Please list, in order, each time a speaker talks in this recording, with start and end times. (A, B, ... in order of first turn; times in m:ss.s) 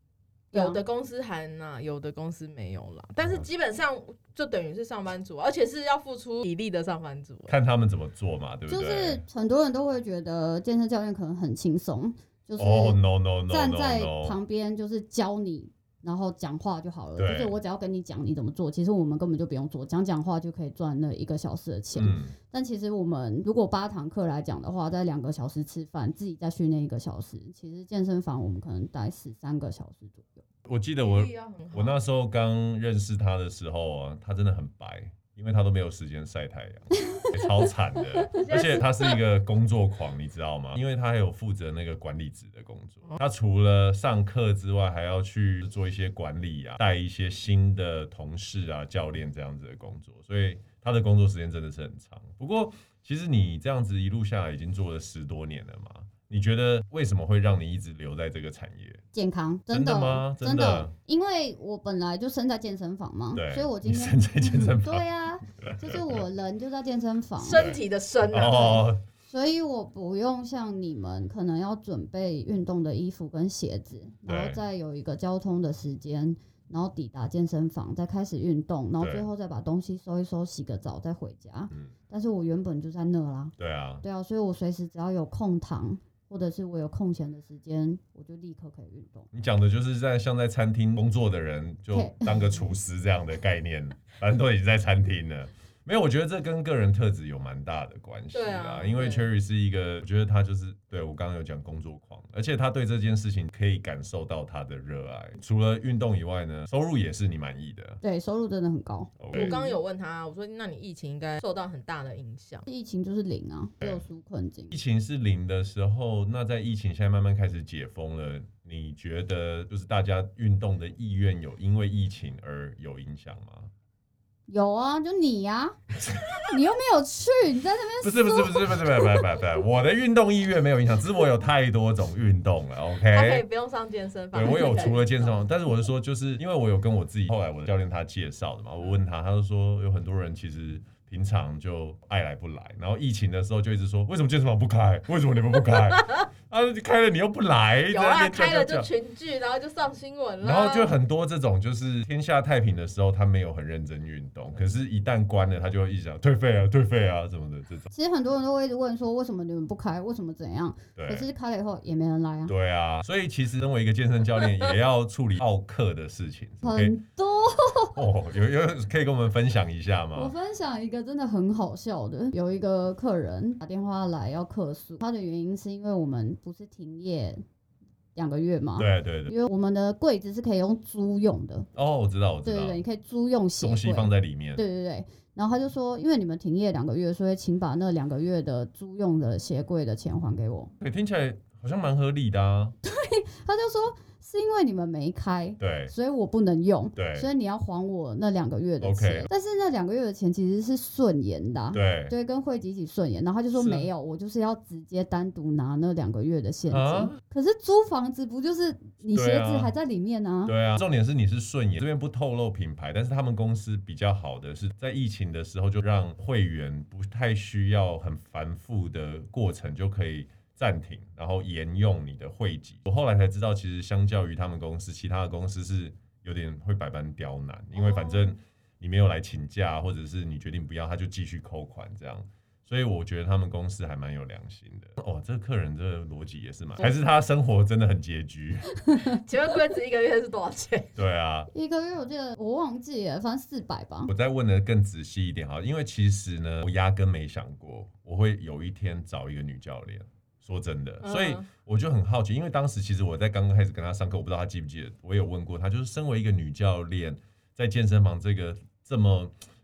0:00.5-0:07.6 A
0:00.5-0:00.8 B
0:03.2-0:03.5 C
0:07.5-0:09.2 C
0:08.7-0:30.4 B
0:12.6-0:14.4 C
0:17.2-0:17.6 C
0:21.9-0:22.3 C
0:30.6-0:59.0 C
0:31.0-0:32.0 A
0:37.0-0:37.3 B
0:38.3-0:39.2 A
0:59.1-1:07.7 B
0:59.7-1:00.9 C
1:03.3-1:05.0 C
1:05.6-1:06.2 C
1:07.4-1:08.8 A
1:07.5-1:09.0 C
1:08.4-1:29.3 B
1:14.3-1:14.6 C
1:19.0-1:19.3 C
1:23.6-1:24.0 C
1:29.3-1:48.0 C
1:31.9-1:32.6 B
1:38.3-1:39.3 A
1:48.0-1:49.8 B
1:49.2-1:49.6 C
1:49.3-1:52.7 A
1:52.7-1:54.8 B
1:54.7-2:03.7 C
2:04.5-2:05.8 B
2:06.1-2:06.4 C
2:06.5-2:09.4 B
2:08.0-2:13.4 C
2:13.1-2:15.5 A
2:14.3-2:28.9 C
2:27.9-2:31.0 A
2:30.4-2:37.9 C
2:37.9-2:42.5 B
2:41.0-2:41.3 C
2:42.5-2:47.0 C
2:46.6-2:48.0 B
2:47.9-2:50.3 C
2:50.1-2:57.4 B
2:58.2-3:01.7 B
2:58.8-2:59.3 C
3:01.7-3:02.8 C
3:02.4-3:10.7 B
3:03.6-3:04.6 C
3:10.8-3:12.7 C
3:12.8-3:30.6 B
3:15.6-3:15.9 C
3:17.0-3:17.3 C
3:18.8-3:19.3 C
3:21.7-3:22.2 C
3:23.5-3:23.9 C
3:26.7-3:27.2 C
3:29.1-3:29.7 C
3:30.4-3:58.8 C
3:59.2-4:00.9 A
4:01.0-4:01.5 C
4:01.5-4:04.1 B
4:04.1-4:19.3 C
4:11.0-4:11.4 A